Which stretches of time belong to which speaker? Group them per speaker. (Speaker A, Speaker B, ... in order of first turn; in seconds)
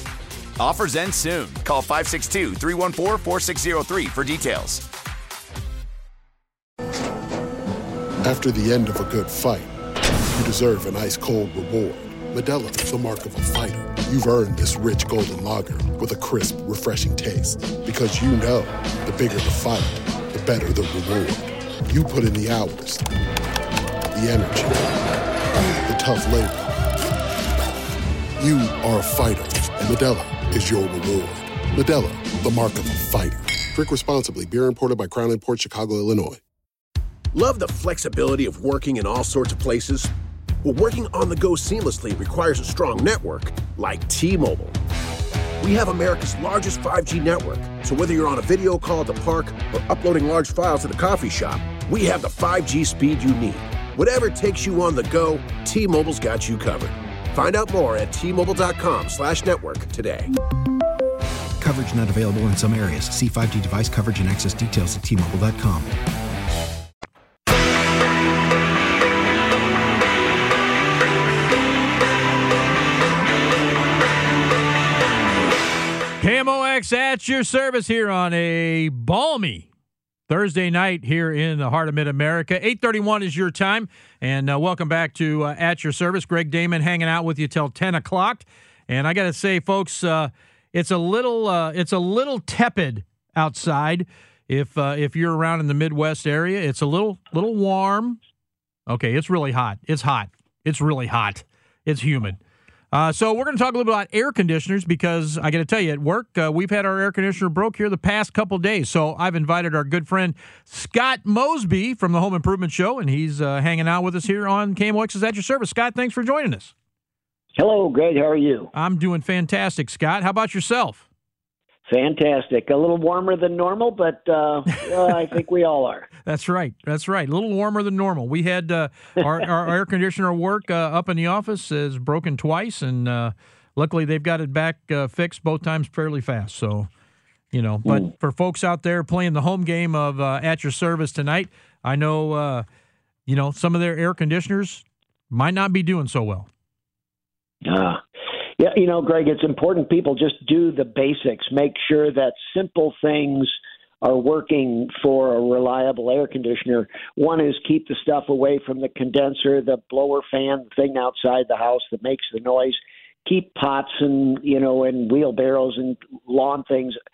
Speaker A: 0.6-4.9
Speaker B: 8.2-9.7, 10.3-23.0, 24.1-24.9, 25.9-26.7, 28.4-36.4
Speaker C: 37.3-40.1, 40.6-44.8, 45.6-60.3
Speaker D: 61.6-65.9
Speaker E: 76.2-79.7, 80.3-98.2, 98.9-102.4, 102.9-116.7, 118.7-121.0, 126.2-136.9, 137.5-142.7, 143.3-146.5
Speaker F: 117.5-118.7, 121.9-126.1, 147.6-148.0, 148.6-167.0